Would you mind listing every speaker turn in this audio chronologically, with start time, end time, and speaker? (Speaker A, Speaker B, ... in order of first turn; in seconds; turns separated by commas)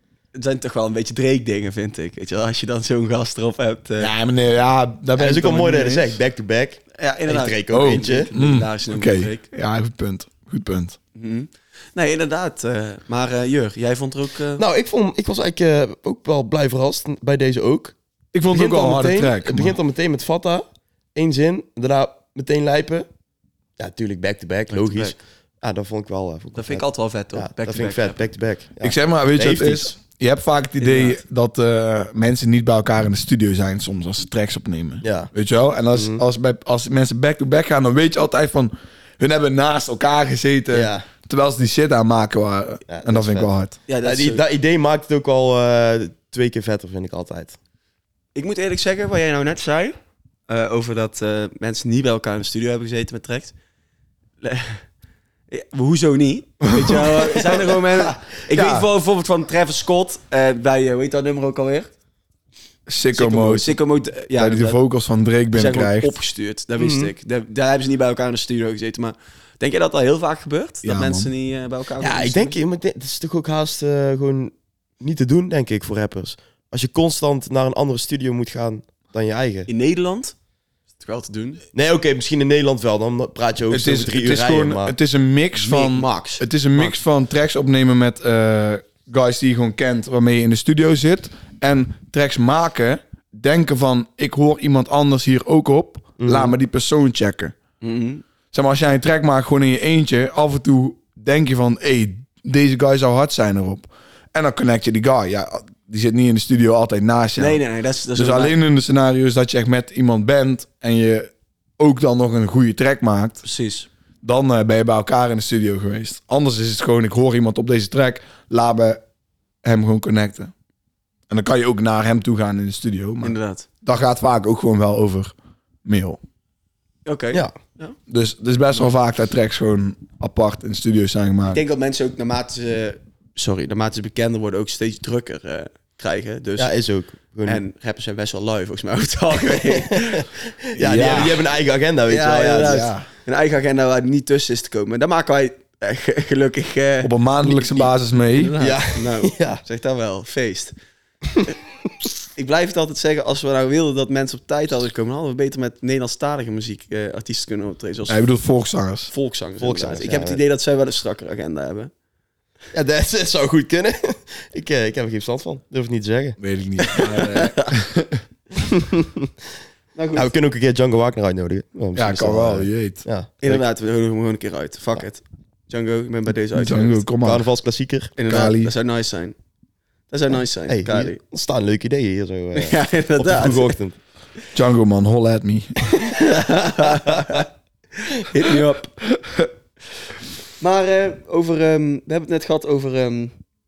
Speaker A: 0.3-4.1, Speaker B: 4.0-6.2, Speaker C: 5.2-8.3, Speaker A: 7.0-9.4, Speaker B: 7.7-11.0, Speaker A: 11.2-14.6, Speaker C: 14.6-17.9, Speaker B: 18.3-19.8, Speaker C: 18.5-23.1, Speaker C: 23.8-30.0, Speaker A: 24.7-25.2, Speaker A: 26.6-28.2, Speaker B: 28.8-43.8, Speaker A: 30.8-31.2, Speaker C: 35.0-35.3, Speaker C: 35.9-36.2, Speaker C: 40.7-41.1, Speaker C: 42.9-43.5, Speaker A: 43.9-44.4, Speaker C: 44.0-47.6, Speaker A: 48.4-50.0, Speaker A: 50.5-53.5, Speaker A: 54.4-54.8, Speaker A: 55.5-61.9, Speaker B: 56.6-57.2, Speaker B: 58.5-58.9, Speaker B: 62.9-63.8, Speaker A: 63.1-64.8, Speaker B: 64.3-66.2, Speaker A: 65.5-72.6, Speaker C: 66.8-67.1, Speaker B: 70.8-71.3, Speaker C: 72.0-79.7, Speaker A: 79.7-80.3, Speaker A: 81.0-81.6, Speaker C: 81.7-85.0, Speaker B: 83.7-97.6, Speaker A: 85.6-87.0, Speaker C: 96.2-96.5, Speaker A: 97.8-98.2, Speaker B: 98.5-107.6, Speaker A: 107.4-108.6, Speaker B: 108.2-113.4, Speaker A: 113.4-113.9, Speaker B: 114.2-119.0, Speaker B: 119.6-120.5, Speaker B: 121.3-125.3, Speaker A: 123.2-123.7, Speaker B: 125.8-126.2, Speaker A: 127.1-128.0, Speaker B: 128.1-131.6, Speaker A: 131.5-136.7, Speaker C: 136.6-137.6, Speaker A: 137.5-141.3, Speaker C: 139.5-142.9, Speaker B: 140.8-141.5, Speaker A: 142.1-150.7, Speaker B: 142.6-143.1, Speaker B: 147.0-148.6, Speaker C: 148.6-149.6, Speaker A: 152.3-158.2, Speaker B: 158.1-159.1, Speaker A: 159.1-161.9, Speaker C: 159.6-160.4, Speaker C: 162.7-167.2, Speaker B: 166.4-168.2, Speaker A: 166.9-167.8, Speaker C: 168.6-169.3, Speaker A: 170.0-170.3, Speaker C: 170.2-173.6, Speaker B: 171.9-173.0, Speaker A: 173.4-177.0, Speaker B: 176.6-177.5, Speaker C: 177.2-178.2, Speaker A: 178.2-179.4, Speaker B: 178.3-178.7, Speaker A: 180.1-181.2, Speaker C: 180.7-184.0, Speaker A: 182.6-183.8, Speaker B: 184.5-185.8, Speaker A: 186.0-187.5, Speaker A: 188.1-189.0, Speaker A: 190.6-193.3